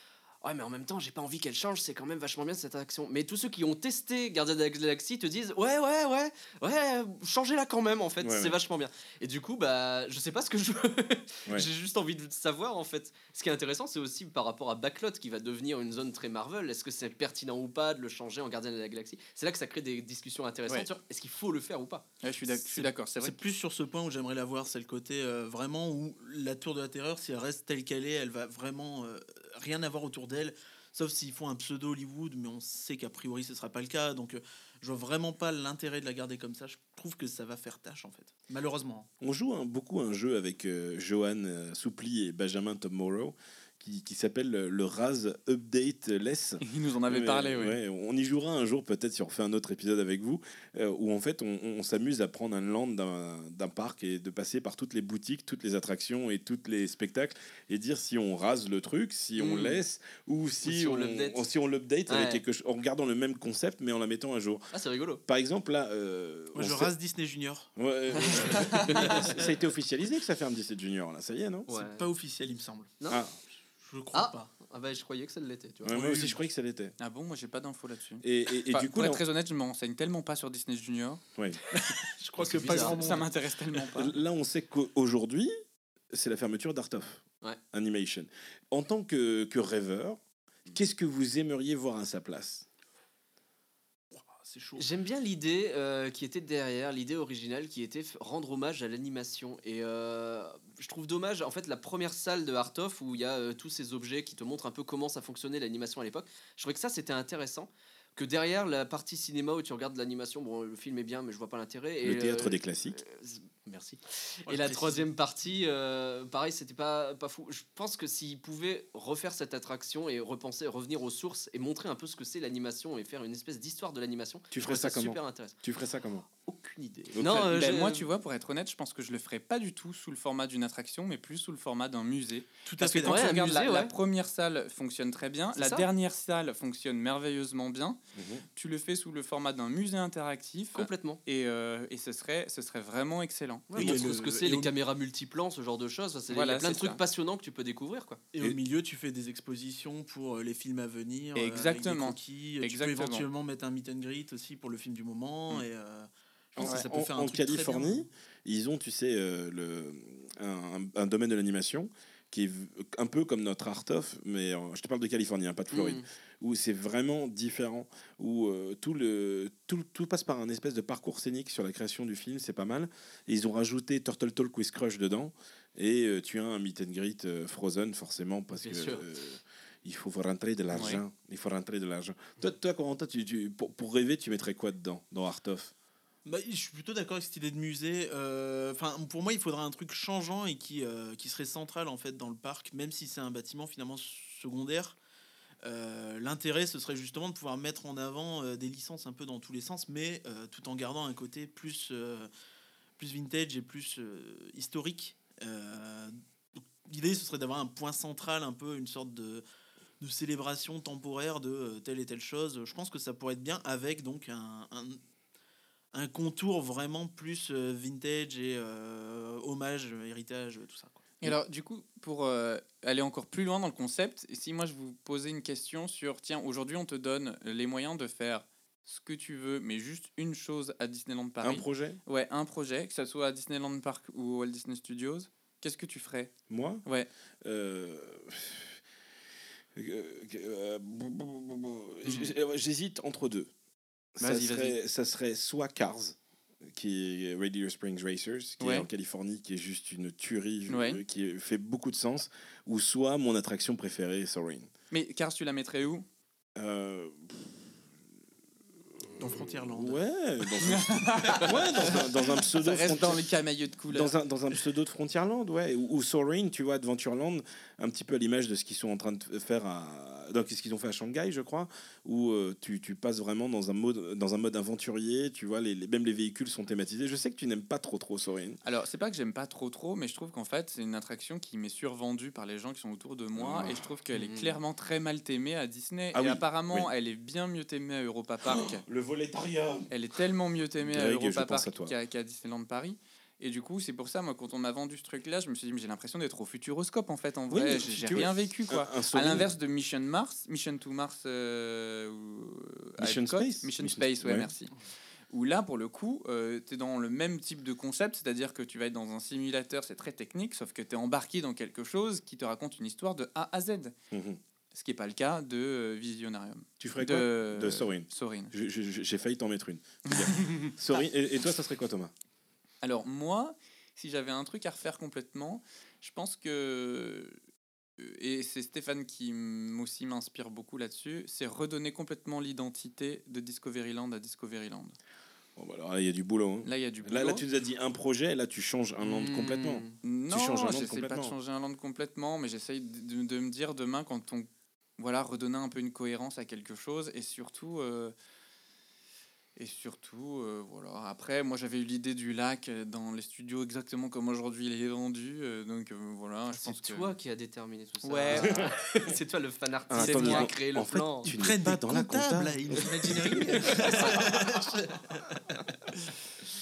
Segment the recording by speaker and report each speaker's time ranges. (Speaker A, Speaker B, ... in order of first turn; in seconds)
Speaker A: 0.4-22.1, 59.4-59.8, 60.6-61.4, 62.1-62.4, 64.7-65.2, 68.2-69.3, 71.7-72.1, 74.1-76.0, 82.4-83.2, 94.8-125.6, 126.4-128.1, 133.1-133.9, 140.8-141.2, 143.7-148.2, 165.7-166.1, 178.6-179.1, 284.1-284.6, 339.0-340.0, 356.5-361.3, 363.0-365.2
Speaker B: 8.2-8.6, 39.2-64.7, 65.3-66.9, 67.8-71.7, 73.1-73.3, 75.8-77.0, 78.2-79.2, 83.9-85.5, 86.1-92.7, 112.0-113.0, 124.5-126.3, 127.1-127.5, 138.1-138.4, 143.8-144.1, 156.6-185.7, 231.4-232.0, 236.5-236.8, 237.4-238.8, 239.8-243.5, 244.2-254.7, 256.6-257.6, 259.2-263.2, 263.9-278.6, 283.4-283.9, 286.1-286.9, 288.4-289.9, 290.8-291.9, 297.5-299.5, 303.0-304.5, 314.1-314.4, 316.8-322.1, 335.6-341.4, 358.3-358.7, 359.9-364.0
Speaker C: 22.2-23.4, 46.6-47.8, 77.0-81.2, 82.6-84.2, 127.2-138.0, 138.6-143.7, 146.3-147.0, 151.3-153.3, 180.7-181.0, 221.2-236.3, 236.8-237.1, 244.2-244.8, 248.6-248.9, 250.7-251.0, 254.9-256.1, 260.6-264.1, 278.6-288.8, 289.9-304.7, 305.3-313.9, 314.7-318.5, 320.1-320.7, 322.8-327.4, 328.0-335.0, 336.6-337.5, 340.0-348.1, 349.6-357.1, 358.0-358.6, 360.0-360.5
Speaker D: 22.6-39.1, 66.5-69.3, 71.7-72.9, 73.8-74.5, 75.9-76.4, 81.9-83.3, 94.1-94.9, 114.5-115.1, 132.7-133.6, 143.8-144.7, 148.3-158.1, 186.2-195.0, 195.6-202.3, 203.0-206.2, 206.8-209.4, 210.0-215.0, 215.9-221.1, 259.2-260.0, 361.2-365.2